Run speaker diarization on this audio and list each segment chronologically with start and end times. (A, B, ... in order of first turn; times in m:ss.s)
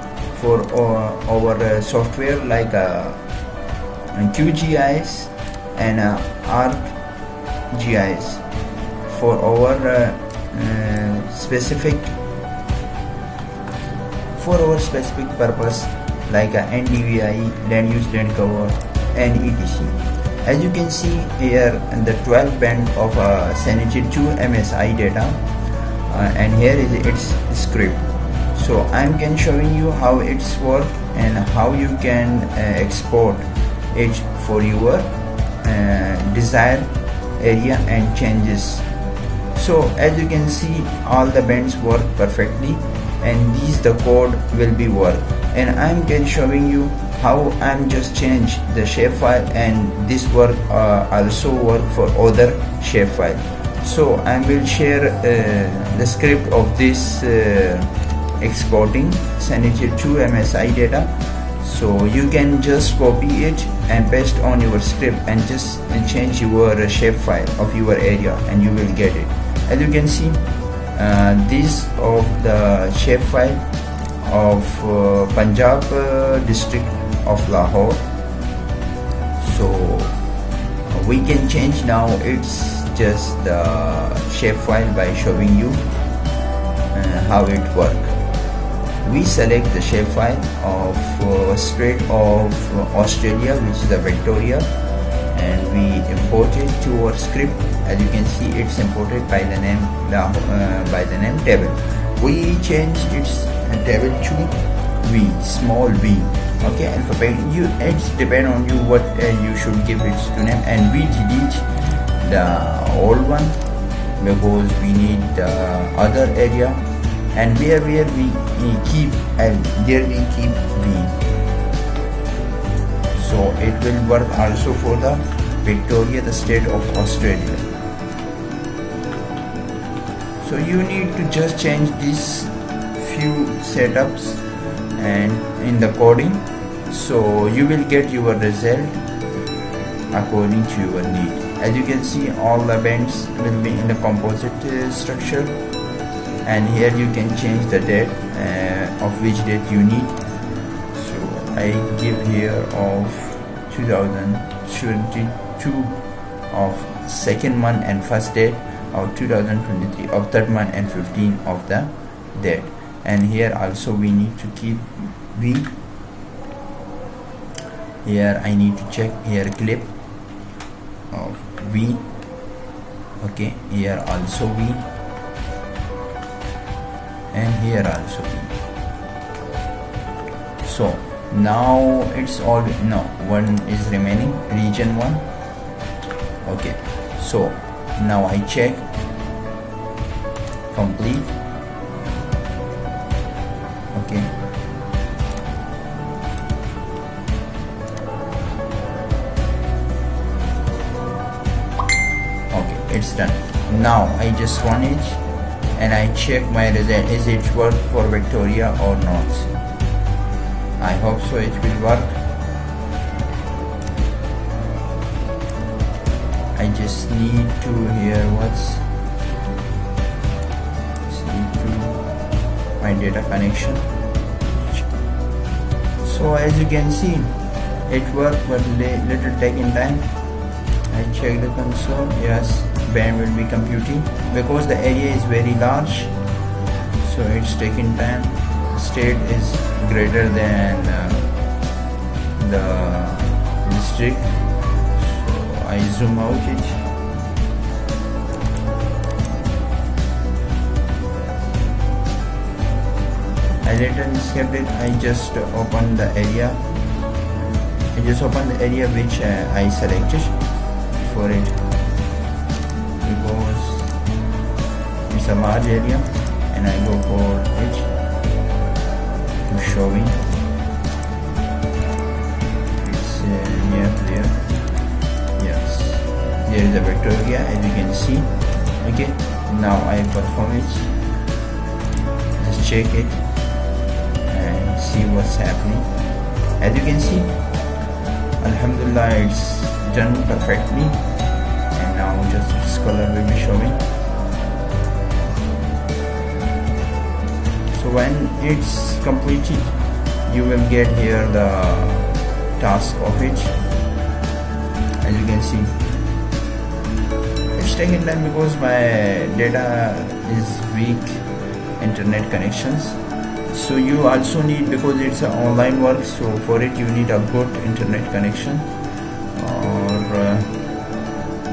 0:00.3-0:03.2 A
0:04.1-0:07.0 A
0:07.7-0:08.4 A
0:09.0-0:12.1 A
0:14.4-0:35.1 A
0:35.6-0:38.8 A
0:39.5-1:13.6 A
1:14.2-1:18.0 A
1:19.4-1:20.1 A
1:20.9-1:25.8 A
1:26.9-1:28.2 A
1:29.0-1:34.7 A
1:35.3-1:53.6 A
1:54.2-2:01.2 A
2:03.1-2:07.7 A
2:10.4-2:14.4 A
2:14.9-2:19.0 A
2:20.1-2:25.6 A
2:26.4-2:30.2 A
2:30.9-2:36.0 A
2:36.5-2:45.7 A
2:48.0-2:49.9 A
2:51.1-2:52.1 A
2:53.2-2:54.9 A
2:57.3-2:58.5 A
3:00.6-3:05.2 A
3:06.4-3:08.9 A
3:10.7-3:11.3 A
3:13.9-3:14.3 A
3:22.5-3:25.2 A
3:25.8-3:29.5 A
3:30.8-3:32.2 A
3:36.5-3:38.9 A
3:41.1-3:42.0 A
3:42.8-3:43.9 A
3:46.0-3:47.4 A
3:47.9-3:50.1 A
3:50.9-3:56.2 A
3:57.0-4:01.3 A
4:02.4-4:04.3 A
4:04.9-4:06.8 A
4:13.6-4:16.6 A
4:17.9-4:20.4 A
4:21.0-4:21.6 A
4:23.0-4:23.9 A
4:25.1-4:27.9 A
4:29.5-4:30.2 A
4:32.8-4:34.4 A
4:35.4-4:40.9 A
4:42.4-4:43.2 A
4:44.3-4:45.9 A
4:46.6-4:47.4 A
4:48.4-4:51.0 A
4:51.7-4:53.8 A
4:57.7-5:03.6 A
5:05.0-5:05.8 A
5:07.6-5:11.2 A
5:11.8-5:18.7 A
5:19.3-5:20.6 A